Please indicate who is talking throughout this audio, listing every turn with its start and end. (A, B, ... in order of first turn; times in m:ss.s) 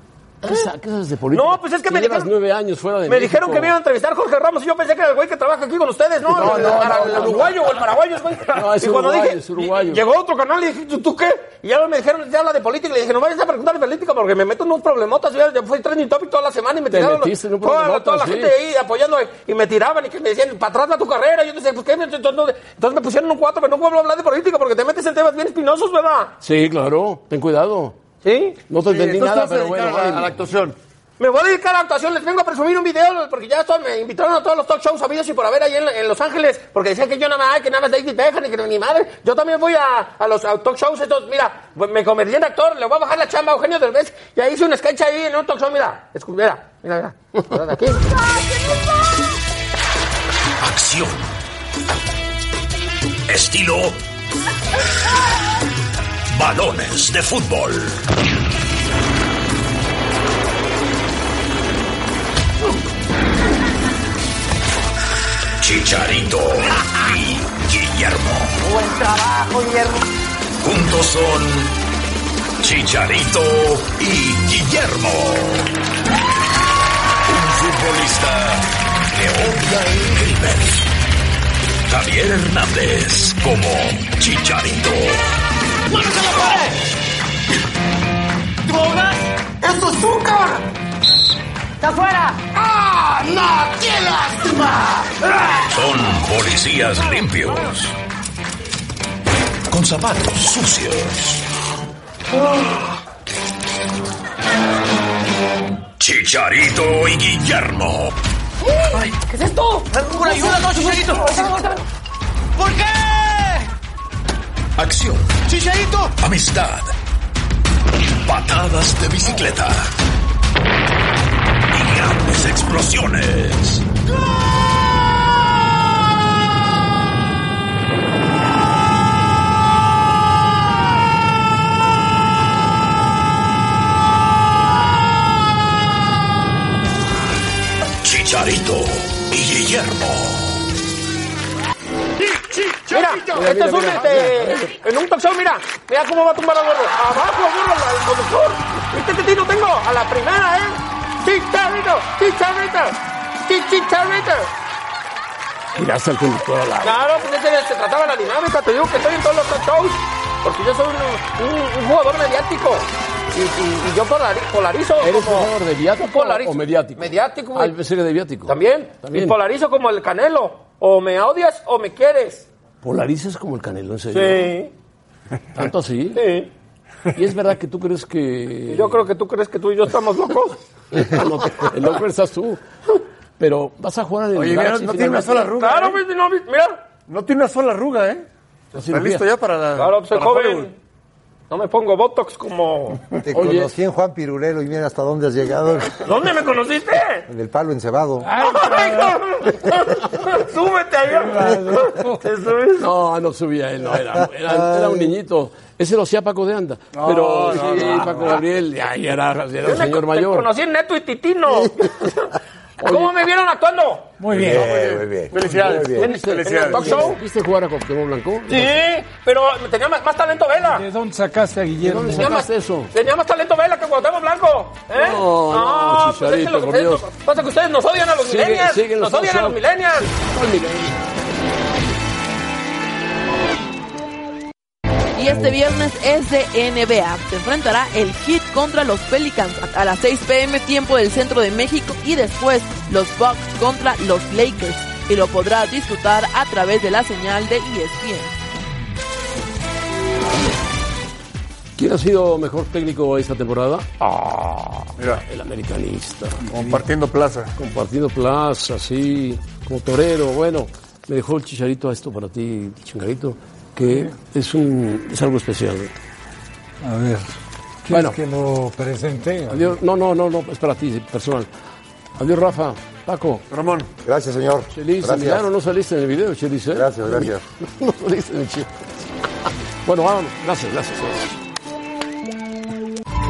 0:00.4-0:03.8 A
0:01.3-0:02.3 B
0:03.1-0:26.4 B
0:06.3-0:07.6 A
0:08.5-0:10.0 A
0:16.9-0:18.6 A
0:26.4-0:28.0 A
0:28.2-0:28.6 B
0:28.7-0:30.4 A
0:28.8-0:30.8 C
0:31.2-0:48.4 B
0:53.5-0:53.9 D
0:56.4-0:57.9 D
1:05.6-1:08.5 D
1:10.6-1:11.7 D
1:12.6-1:15.6 D
1:17.3-1:18.6 D
1:19.2-1:20.8 D
1:21.9-1:25.2 D
1:35.8-1:37.9 D
1:39.7-1:41.4 D
1:46.0-1:48.1 D
1:48.7-1:51.8 B
1:56.2-1:56.9 D
1:58.3-1:59.9 D
2:01.8-2:03.8 D
2:18.1-2:20.1 D
2:22.5-2:34.5 B
2:23.2-2:24.8 A
2:35.8-2:37.0 A
2:36.8-2:47.8 B
2:45.0-2:49.4 A
2:48.4-2:52.5 B
2:52.8-2:54.6 A
2:54.1-2:54.7 B
2:55.5-2:56.2 A
2:56.1-2:56.5 B
2:57.1-2:59.0 A
2:58.7-3:01.7 B
3:00.9-3:02.6 A
3:03.4-3:05.5 A
3:04.3-3:06.0 C
3:05.5-3:06.8 B
3:07.1-3:10.7 C
3:08.7-3:09.2 A
3:09.7-3:10.7 B
3:11.5-3:13.2 B
3:13.2-3:16.0 E
3:13.3-3:13.7 A
3:16.0-3:17.3 B
3:17.3-3:18.3 E
3:18.2-3:19.2 F
3:18.4-3:22.9 B
3:21.2-3:22.1 F
3:22.8-3:30.5 A
3:24.5-3:25.1 E
3:26.9-3:28.4 C
3:27.0-3:28.4 B
3:29.6-3:32.3 B
3:32.8-3:33.2 A
3:32.8-3:34.2 B
3:34.2-3:34.7 F
3:34.3-3:36.1 E
3:34.4-3:37.2 C
3:35.6-3:38.8 A
3:36.0-3:37.2 B
3:38.5-3:40.8 B
3:40.6-3:42.4 F
3:41.8-3:42.9 A
3:42.1-3:50.1 B
3:44.9-3:47.1 A
3:48.1-3:51.0 A
3:55.1-4:08.3 G
4:11.8-4:16.5 A
4:16.5-4:17.5 C
4:17.6-4:25.9 A
4:26.8-4:27.3 F
4:27.8-4:29.7 F
4:27.9-4:28.2 A
4:29.5-4:31.5 A
4:32.2-4:33.4 A
4:33.5-4:33.9 C
4:34.0-4:35.4 E
4:34.7-4:39.1 A
4:36.7-4:37.4 E
4:39.8-4:41.4 A